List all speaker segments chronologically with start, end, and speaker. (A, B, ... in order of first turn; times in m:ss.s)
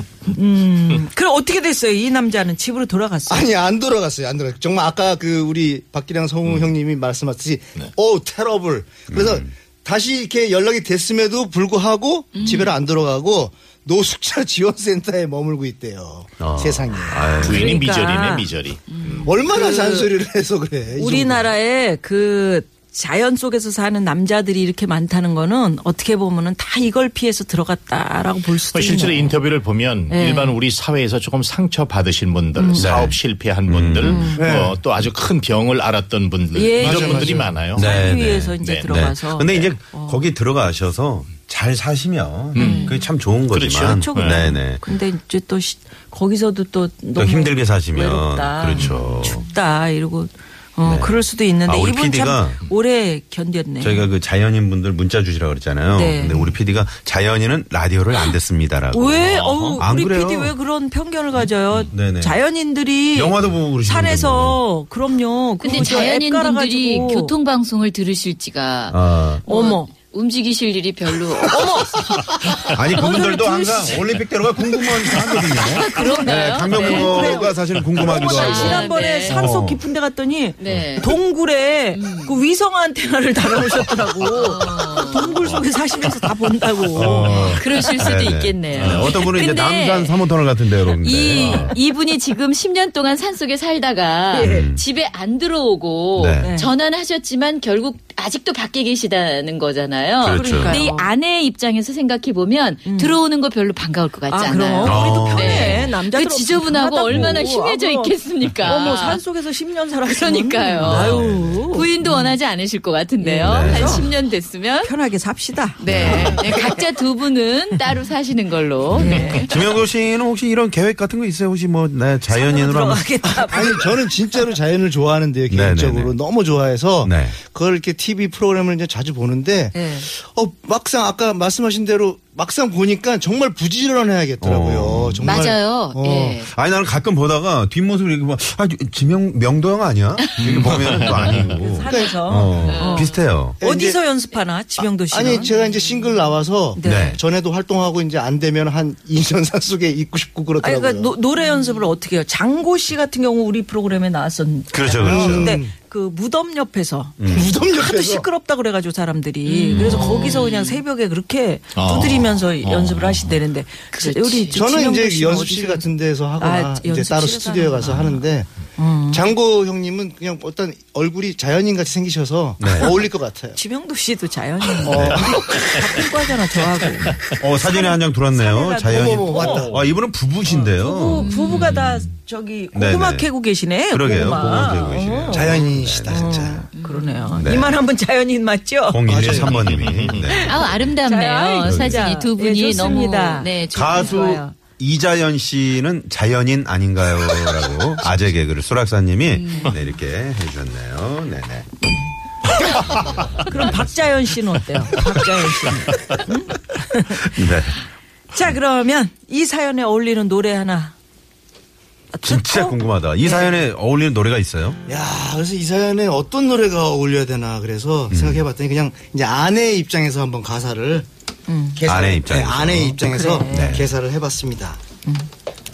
0:00.3-0:03.5 A
0:03.3-0:17.4 B
0:09.1-0:09.5 C
0:12.3-0:12.7 D
0:16.4-0:17.8 C
0:17.2-0:19.4 E
0:17.2-0:18.5 A
0:18.9-0:19.2 D
0:19.2-0:21.5 B
0:19.5-0:20.1 A
0:21.0-0:29.4 A
0:28.7-0:37.9 E
0:30.1-0:30.6 A
0:32.6-0:32.9 A
0:32.8-0:34.3 C
0:34.0-0:34.4 A
0:34.4-0:34.8 B
0:36.5-0:40.3 A
0:36.8-0:37.6 B
0:37.7-0:44.8 C
0:38.6-0:39.0 E
0:42.5-0:42.9 E
0:42.6-0:43.1 A
0:43.5-0:44.4 E
0:43.9-0:54.1 A
0:47.2-0:49.4 C
0:50.8-0:52.6 C
0:53.8-1:00.5 C
0:55.9-0:56.5 A
0:58.9-1:07.3 A
0:59.3-0:59.8 E
1:01.9-1:02.4 C
1:03.1-1:04.6 C
1:05.6-1:08.9 D
1:08.9-1:09.4 C
1:09.4-1:11.6 D
1:09.5-1:09.9 A
1:11.5-1:12.1 A
1:12.7-1:19.8 C
1:12.9-1:14.1 A
1:15.5-1:17.2 D
1:15.9-1:27.7 A
1:18.2-1:19.4 D
1:20.6-1:21.1 D
1:21.9-1:22.4 D
1:24.3-1:25.4 D
1:26.9-1:31.8 C
1:27.3-1:49.2 D
1:28.7-1:29.2 E
1:31.3-1:31.7 A
1:34.3-1:34.7 A
1:34.4-1:34.8 C
1:36.2-1:36.5 C
1:36.4-1:36.7 A
1:40.2-1:40.8 C
1:40.3-1:41.1 A
1:42.8-1:43.2 A
1:44.3-1:52.4 A
1:44.8-1:45.9 C
1:50.0-1:51.2 D
1:50.8-1:51.8 C
1:51.8-1:54.9 D
1:53.2-1:54.1 A
1:53.4-1:54.1 C
1:54.8-1:56.9 A
1:55.8-1:59.5 D
1:55.8-1:56.5 C
1:58.9-2:03.2 C
1:58.9-1:59.5 A
2:02.3-2:04.5 A
2:03.3-2:16.4 B
2:05.5-2:06.1 C
2:07.0-2:07.4 C
2:09.7-2:10.1 A
2:14.4-2:15.4 C
2:15.2-2:16.5 D
2:16.4-2:23.6 C
2:20.4-2:21.5 E
2:21.4-2:25.5 A
2:21.9-2:22.2 B
2:22.6-2:23.1 D
2:23.6-2:24.0 B
2:25.1-2:31.1 B
2:26.8-2:27.2 A
2:26.8-2:27.2 C
2:30.6-2:48.2 A
2:34.7-2:35.6 C
2:35.0-2:35.7 B
2:37.2-2:37.5 C
2:37.3-2:38.2 B
2:39.4-2:40.7 D
2:39.7-2:40.1 E
2:41.7-2:43.4 E
2:43.9-2:44.6 D
2:44.5-2:48.5 B
2:48.8-2:49.2 A
2:49.1-2:53.6 B
2:52.6-2:52.9 C
2:53.5-2:59.7 A
2:54.8-2:55.8 B
2:54.9-2:55.3 C
2:57.3-3:01.9 C
2:58.9-2:59.9 B
3:00.4-3:09.1 A
3:01.1-3:01.6 D
3:02.7-3:03.3 C
3:03.9-3:06.5 C
3:05.3-3:06.6 B
3:06.7-3:07.4 D
3:07.4-3:07.8 C
3:08.9-3:10.7 C
3:09.0-3:09.6 B
3:09.4-3:10.2 E
3:10.1-3:14.5 A
3:10.5-3:14.2 D
3:11.6-3:12.0 C
3:13.7-3:21.7 C
3:19.3-3:19.7 D
3:22.5-3:22.8 A
3:23.4-3:27.4 A
3:23.5-3:23.8 C
3:27.3-3:27.8 C
3:28.3-3:30.9 A
3:32.1-3:33.6 A
3:32.2-3:34.8 C
3:34.9-3:41.0 B
3:38.1-3:38.4 C
3:41.5-3:41.8 A
3:41.8-3:44.8 B
3:41.8-3:43.9 C
3:43.0-3:43.8 A